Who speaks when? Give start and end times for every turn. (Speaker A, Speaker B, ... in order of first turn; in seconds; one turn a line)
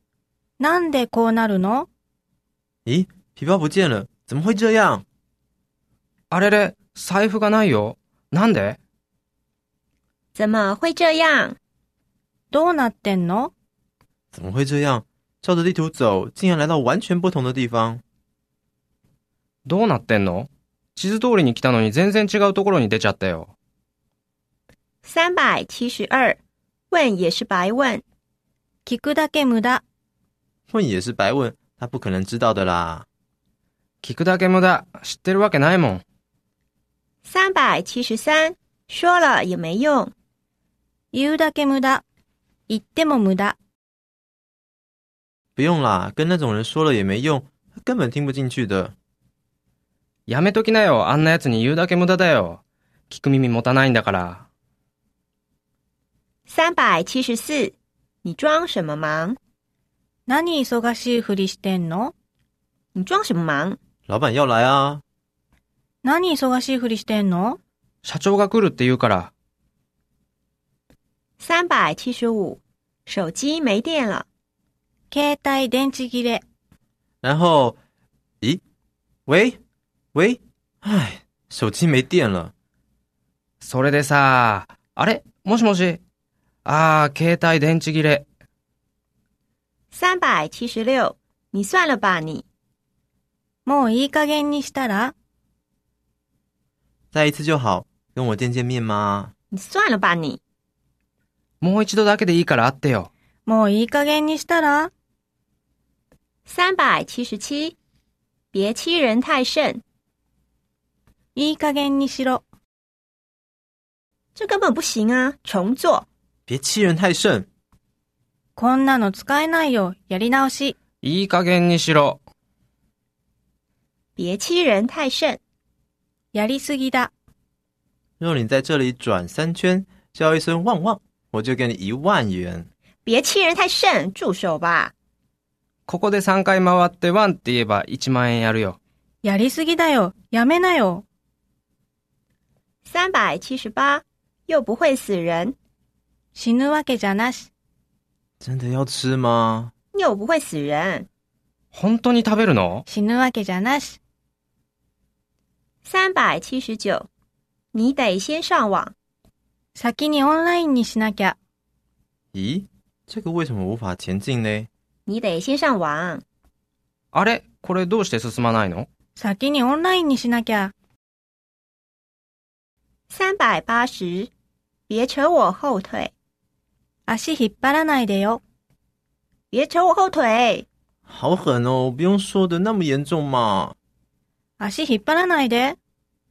Speaker A: 0.6-1.9
Speaker B: 2.9-5.0
Speaker C: 6.3-8.8
Speaker D: 10.3-11.6
Speaker A: 12.5-13.5
Speaker B: 14.3-18.0
Speaker C: 19.7-23.5
Speaker D: 25.0-26.4
Speaker D: 26.9-28.0
Speaker A: 28.9-29.8
Speaker B: 30.7-33.0
Speaker C: 34.0-36.0
Speaker D: 37.2-40.1
Speaker A: 41.1-42.0
Speaker A: 42.7-43.6
Speaker B: 45.5-48.9
Speaker C: 50.3-54.5
Speaker D: 56.5-59.4
Speaker A: 60.3-62.1
Speaker D: 62.9-63.8
Speaker B: 64.1-65.0
Speaker A: 66.0-67.6
Speaker C: 68.0-69.3
Speaker D: 71.4-74.2
Speaker A: 75.1-76.4
Speaker B: 77.2-77.8
Speaker B: 79.3-79.6
Speaker B: 80.1-82.5
Speaker C: 83.6-86.0
Speaker C: 86.6-88.2
Speaker D: 89.9-92.4
Speaker A: 93.7-95.1
Speaker B: 97.1-99.3
Speaker D: 99.5-100.4
Speaker C: 101.6-103.1
Speaker A: 103.5-104.9
Speaker D: 106.5-107.8
Speaker D: 108.5-109.8
Speaker A: 111.3-112.4
Speaker D: 114.3-116.1
Speaker B: 116.5-117.5
Speaker A: 118.5-120.8
Speaker C: 121.0-122.2
Speaker D: 124.2-125.4
Speaker A: 126.3-127.1
Speaker B: 128.2-132.7
Speaker D: 133.1-134.9
Speaker C: 135.9-138.8
Speaker A: 139.2-141.0
Speaker D: 142.8-145.6
Speaker A: 146.3-147.5
Speaker B: 148.4-149.7
Speaker D: 149.9-151.1
Speaker C: 151.7-152.8
Speaker A: 152.9-154.0
Speaker D: 155.8-157.1
Speaker D: 157.7-158.9
Speaker A: 159.8-161.3
Speaker B: 162.3-164.7
Speaker D: 165.1-166.2
Speaker C: 167.1-168.9
Speaker A: 169.2-170.7
Speaker D: 173.1-174.3
Speaker D: 174.9-176.1
Speaker A: 177.1-178.4
Speaker D: 179.5-180.7
Speaker B: 181.1-183.8
Speaker A: 184.6-185.8